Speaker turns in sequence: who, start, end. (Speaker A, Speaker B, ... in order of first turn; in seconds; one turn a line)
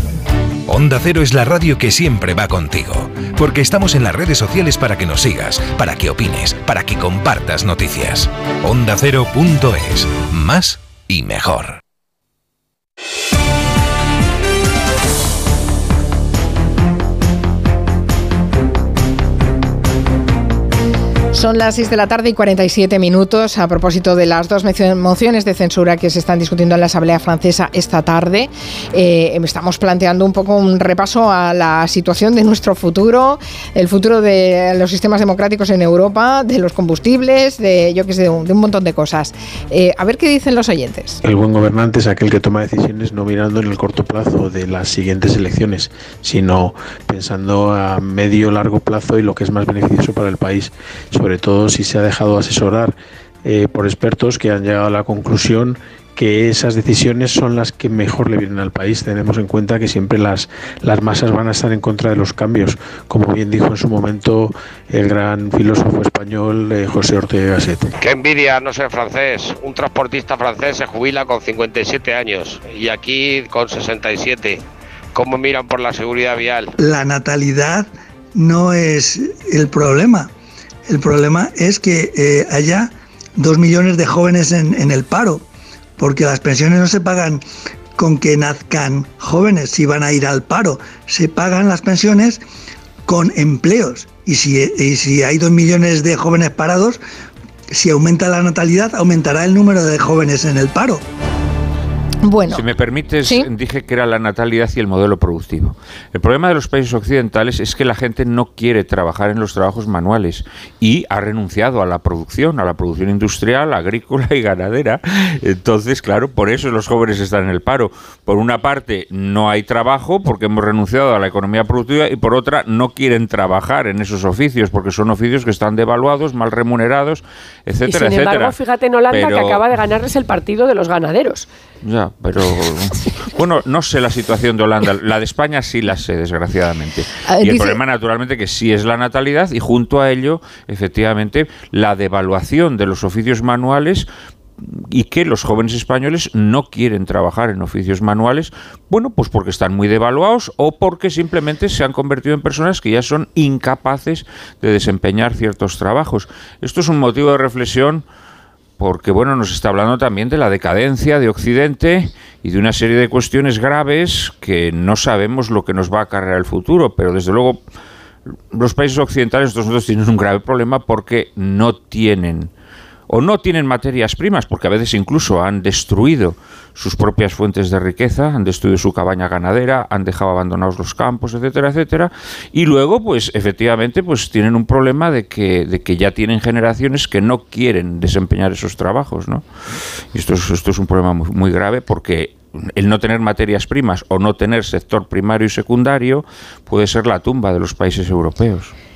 Speaker A: 0.7-11.8
Speaker B: 21.3-41.2
Speaker C: 41.2-67.9
Speaker D: 68.0-74.6
Speaker D: 75.2-76.7
Speaker E: 76.8-80.3
Speaker E: 80.9-85.4
Speaker E: 86.0-87.4
Speaker E: 88.0-92.4
Speaker E: 93.1-97.0
Speaker E: 97.8-101.0
Speaker B: 102.2-102.6
Speaker F: 102.5-128.6
Speaker G: 127.9-131.5
Speaker F: 129.1-129.6
Speaker F: 131.8-144.1
Speaker B: 137.3-137.8
Speaker F: 144.6-158.1
Speaker F: 158.8-167.6
Speaker F: 168.5-172.5
Speaker F: 173.1-189.4
Speaker F: 190.1-198.7